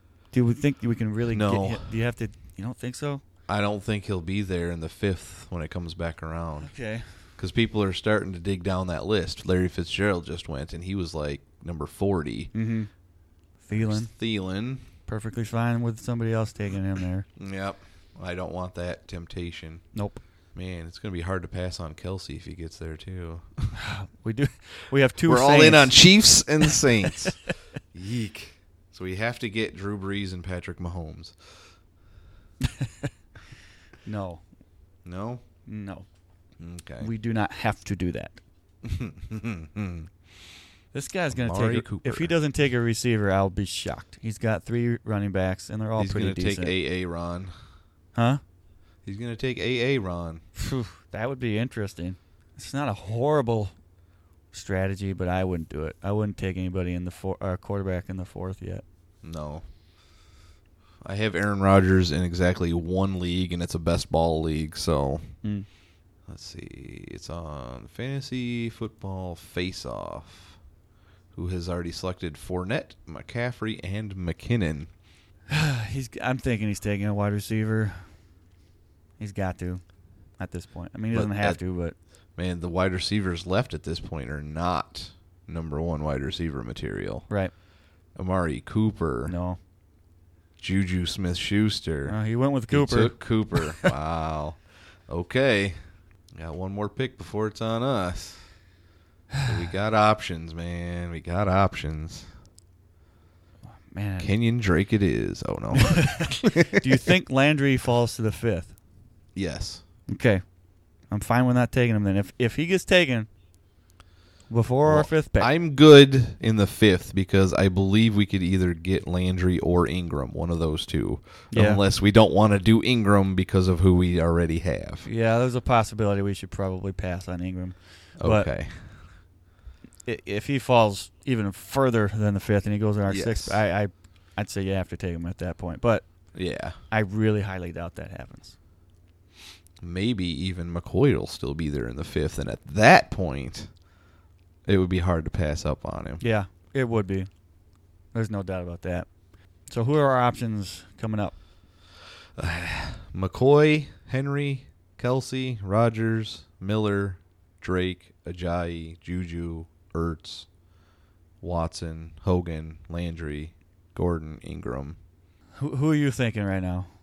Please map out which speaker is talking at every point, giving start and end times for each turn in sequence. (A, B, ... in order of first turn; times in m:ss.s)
0:00.3-0:03.2 A
0:01.3-0:01.9 B
0:03.5-0:06.7 B
0:06.6-0:07.0 A
0:07.4-0:12.5 B
0:12.5-0:12.9 A
0:13.6-0:14.1 A
0:13.8-0:14.8 B
0:15.1-0:17.2 A
0:17.4-0:19.8 B
0:19.9-0:20.2 A
0:20.5-0:23.7 B
0:23.7-0:26.0 A
0:25.2-0:27.4 B
0:27.9-0:31.4 B
0:32.6-0:33.1 A
0:34.0-0:34.4 A
0:35.0-0:35.4 B
0:35.7-0:36.1 A
0:36.6-0:37.1 B
0:37.0-0:38.4 A
0:38.8-0:40.1 B
0:40.9-0:46.7 A
0:41.3-0:42.3 B
0:46.0-0:47.5 B
0:48.1-0:48.4 A
0:49.0-0:50.4 B
0:50.6-0:53.7 A
0:54.5-0:58.8 A
0:59.2-0:59.6 B
1:01.0-1:05.3 B
1:06.3-1:10.6 B
1:11.3-1:14.9 B
1:15.5-1:18.1 A
1:19.2-1:19.8 A
1:20.4-1:21.9 A
1:21.1-1:21.6 B
1:22.4-1:27.3 B
1:28.1-1:29.3 B
1:29.2-1:29.6 A
1:30.6-1:32.2 B
1:32.1-1:33.9 A
1:32.7-1:35.8 B
1:36.3-1:38.5 B
1:39.4-1:42.3 B
1:43.9-1:44.3 A
1:44.2-1:46.9 B
1:45.8-1:48.7 A
1:49.3-1:49.8 B
1:50.1-1:50.4 A
1:51.1-1:53.3 A
1:54.5-1:55.5 A
1:54.8-2:05.1 B
2:01.5-2:01.8 A
2:05.0-2:08.5 A
2:08.2-2:09.0 B
2:10.0-2:16.0 A
2:13.1-2:13.6 B
2:16.3-2:16.8 B
2:16.9-2:18.5 A
2:19.8-2:23.7 B
2:24.6-2:26.2 B
2:26.2-2:27.3 A
2:28.1-2:29.1 A
2:29.7-2:31.4 A
2:32.4-2:40.5 B
2:41.4-2:45.0 B
2:45.6-2:46.9 A